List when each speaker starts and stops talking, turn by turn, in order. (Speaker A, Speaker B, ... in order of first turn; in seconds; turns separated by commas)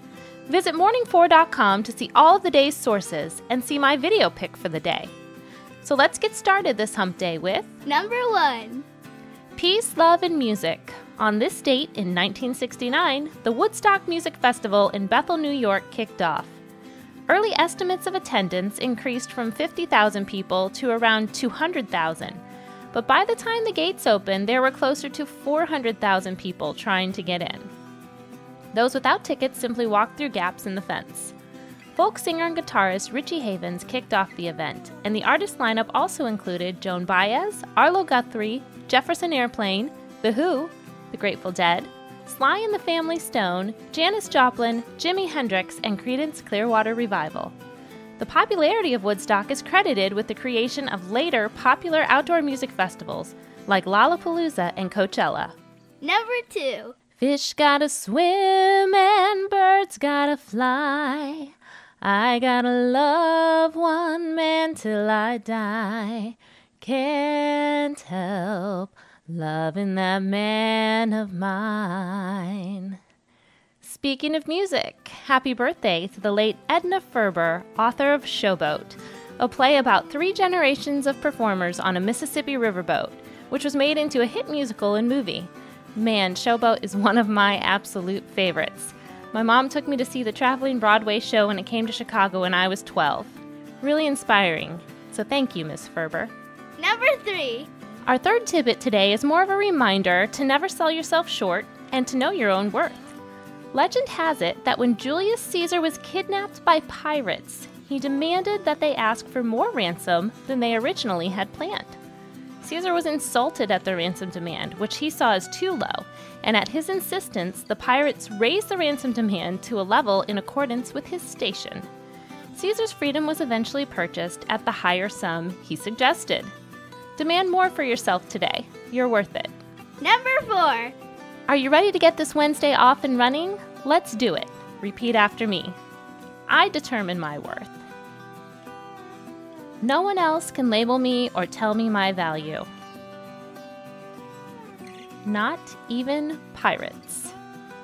Speaker A: 0.5-5.1, Speaker A: 5.8-7.8, Speaker B: 7.8-8.8, Speaker A: 9.6-16.6, Speaker A: 17.3-27.7, Speaker A: 28.7-31.3, Speaker A: 31.9-47.5, Speaker A: 48.2-55.5, Speaker B: 56.0-56.9, Speaker A: 57.2-73.0, Speaker A: 73.8-96.3, Speaker B: 96.8-97.7, Speaker A: 98.0-103.1, Speaker A: 103.7-112.0, Speaker A: 112.6-121.9, Speaker A: 122.5-126.5, Speaker A: 127.2-129.5, Speaker B: 130.0-130.9, Speaker A: 131.5-135.8, Speaker A: 136.5-137.8, Speaker A: 139.8-142.7, Speaker A: 145.2-147.3